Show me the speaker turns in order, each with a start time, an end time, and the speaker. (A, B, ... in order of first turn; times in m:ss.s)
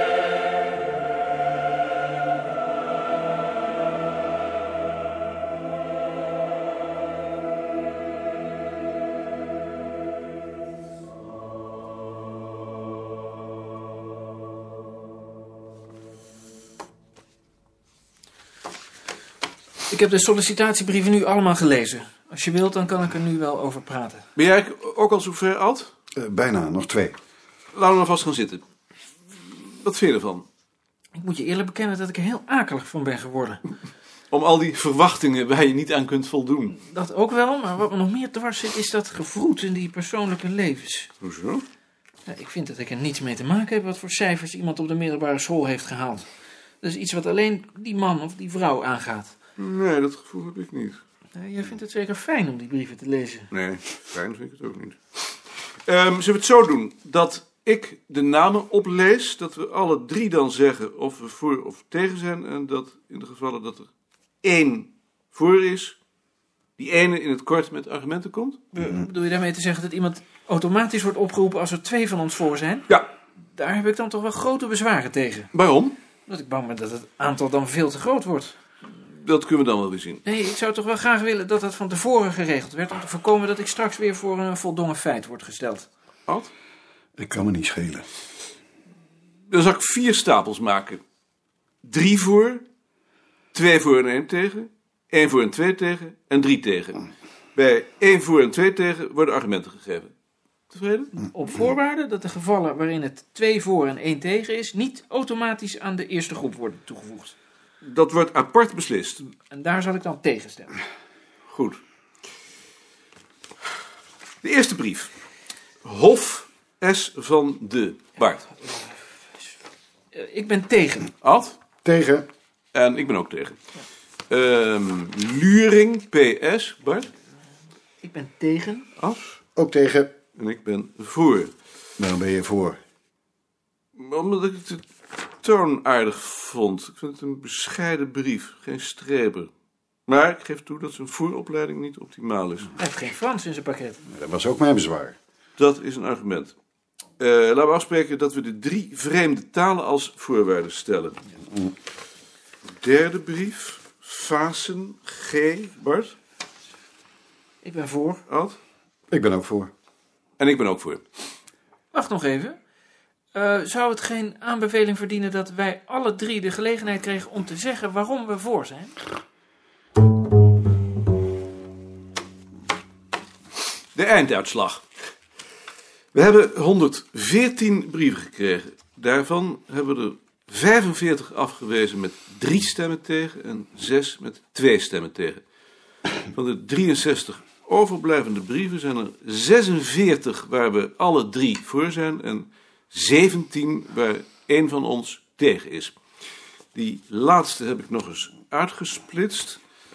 0:19.9-0:24.3 A
0:24.4-0:25.9 B
0:26.2-0:27.2 C
0:27.7-0:28.6 B
0:29.5-0:30.4 B
0:31.2-0:33.6 A
0:34.3-0:36.8 B
0:36.8-0:41.1 A
0:41.2-0:41.6 B
0:42.3-0:46.3 A
0:46.8-0:49.3 A
0:49.6-0:51.0 B
0:51.3-0:53.5 A
0:53.5-1:03.9 B
1:04.4-1:06.0 B
1:06.8-1:08.6 B
1:08.7-1:12.9 A
1:13.6-1:15.5 A
1:15.5-1:16.0 B
1:16.3-1:18.6 A
1:18.9-1:20.2 B
1:20.2-1:25.9 A
1:27.2-1:28.0 C
1:29.5-1:31.0 B
1:31.8-1:32.6 B
1:33.5-1:40.1 B
1:40.7-1:41.2 B
1:41.2-1:47.4 A
1:47.8-1:49.2 B
1:49.3-1:50.7 A
1:51.5-1:51.8 B
1:54.4-1:55.1 B
1:55.8-1:58.5 B
1:58.6-1:59.0 A
2:00.1-2:01.1 A
2:01.2-2:01.6 B
2:01.8-2:02.3 C
2:02.7-2:03.6 B
2:04.3-2:07.1 B
2:08.0-2:08.9 A
2:09.6-2:10.1 C
2:10.4-2:11.5 B
2:12.0-2:12.8 C
2:14.0-2:14.8 B
2:15.4-2:19.5 B
2:20.1-2:22.7 B
2:22.8-2:24.0 A
2:24.1-2:25.2 C
2:25.6-2:26.6 B
2:27.2-2:31.2 B
2:32.8-2:36.2 B
2:37.6-2:38.2 A
2:38.3-2:38.6 B
2:39.1-2:39.7 C
2:40.4-2:41.0 B
2:41.9-2:42.6 A
2:43.3-2:48.9 A
2:54.0-2:54.8 B
2:56.1-3:05.4 B
3:06.3-3:16.0 B
3:16.8-3:19.6 B